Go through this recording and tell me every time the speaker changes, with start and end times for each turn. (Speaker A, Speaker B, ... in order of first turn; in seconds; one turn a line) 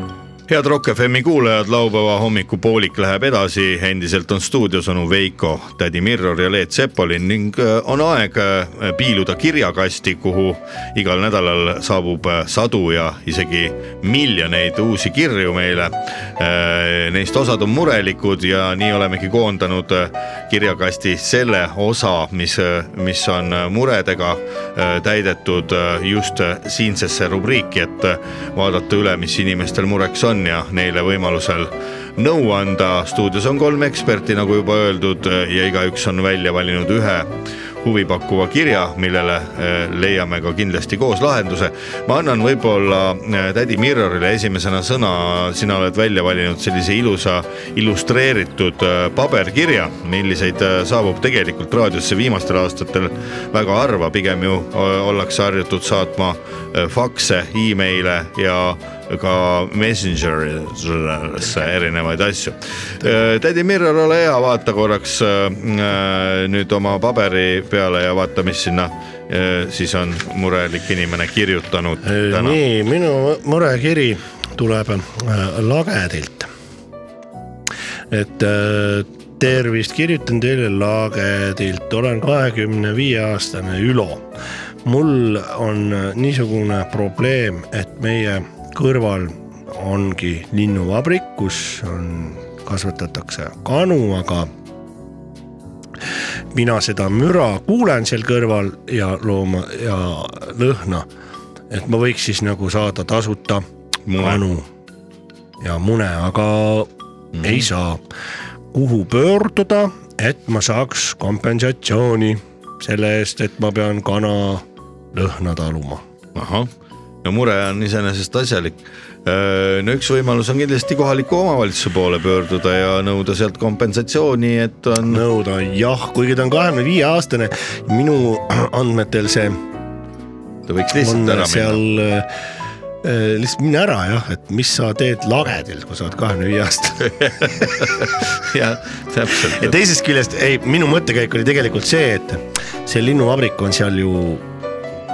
Speaker A: 0.5-72.6
Speaker B: 72.0-76.5
Speaker B: 78.1-84.3
Speaker B: 84.8-94.5
Speaker B: 96.5-101.1
Speaker B: 101.7-104.7
Speaker A: 104.1-104.4
Speaker B: 105.6-106.9
Speaker A: 107.3-107.7
Speaker B: 107.4-108.0
Speaker B: 108.7-116.0
Speaker A: 116.3-116.7
Speaker A: 117.2-125.2
Speaker B: 125.0-129.6
Speaker A: 130.7-131.8
Speaker B: 130.9-132.3
Speaker B: 133.0-138.1
Speaker A: 137.2-139.8
Speaker B: 139.3-144.4